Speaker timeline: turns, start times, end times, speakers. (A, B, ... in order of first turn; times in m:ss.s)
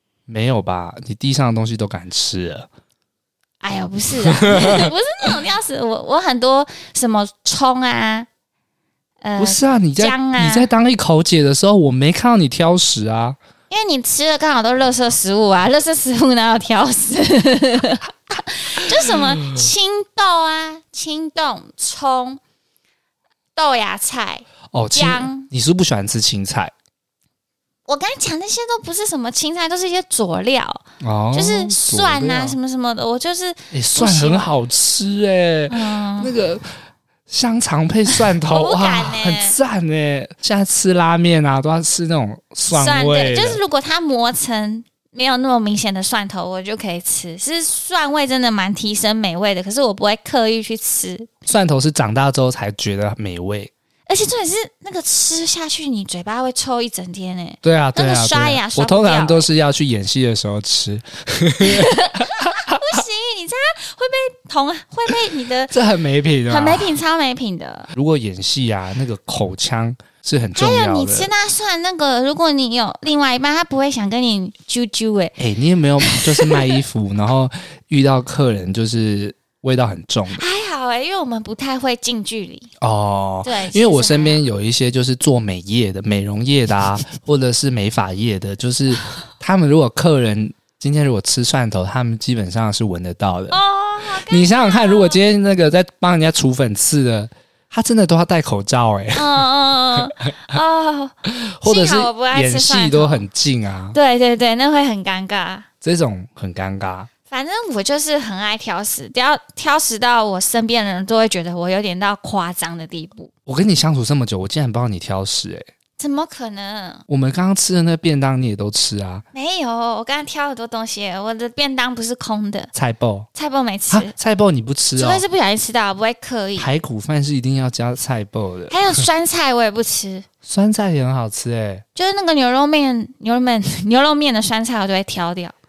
0:00.3-0:02.7 A
0:03.6-0:08.3 B
0:04.2-0:04.9 A
0:09.2-0:10.7 B
0:09.4-0:13.4 A
0:13.7-0:22.4 B
0:19.2-0:19.6 A
0:23.6-0:25.5 B
0:24.7-0:26.7 A
0:27.9-0:34.5 B
0:31.0-0:32.6 A
0:33.7-0:36.6 A
0:35.7-0:36.3 B
0:37.3-0:43.6 A
0:38.5-0:39.6 B
0:42.7-0:51.3 B
0:51.5-0:53.7 A
0:54.1-0:59.5 B
0:57.6-1:02.8 A
1:01.6-1:05.7 B
1:05.7-1:06.9 A
1:06.5-1:07.9 B
1:07.9-1:11.3 A
1:10.6-1:15.4 B
1:15.4-1:20.4 A
1:16.1-1:16.8 B
1:20.3-1:22.7 B
1:22.8-1:33.6 A
1:23.4-1:24.4 B
1:33.5-1:35.2 B
1:34.1-1:39.4 A
1:39.1-1:43.2 B
1:40.0-1:40.3 A
1:41.2-1:44.0 A
1:43.9-1:45.7 B
1:45.8-1:47.1 A
1:47.3-1:53.3 B
1:53.4-1:55.7 A
1:56.0-1:57.0 B
1:57.1-1:59.2 A
1:59.3-2:02.7 B
2:02.7-2:03.3 A
2:03.3-2:04.1 B
2:03.9-2:05.2 A
2:05.0-2:06.7 B
2:06.6-2:09.0 A
2:08.7-2:10.3 B
2:10.4-2:11.8 A
2:12.0-2:15.5 B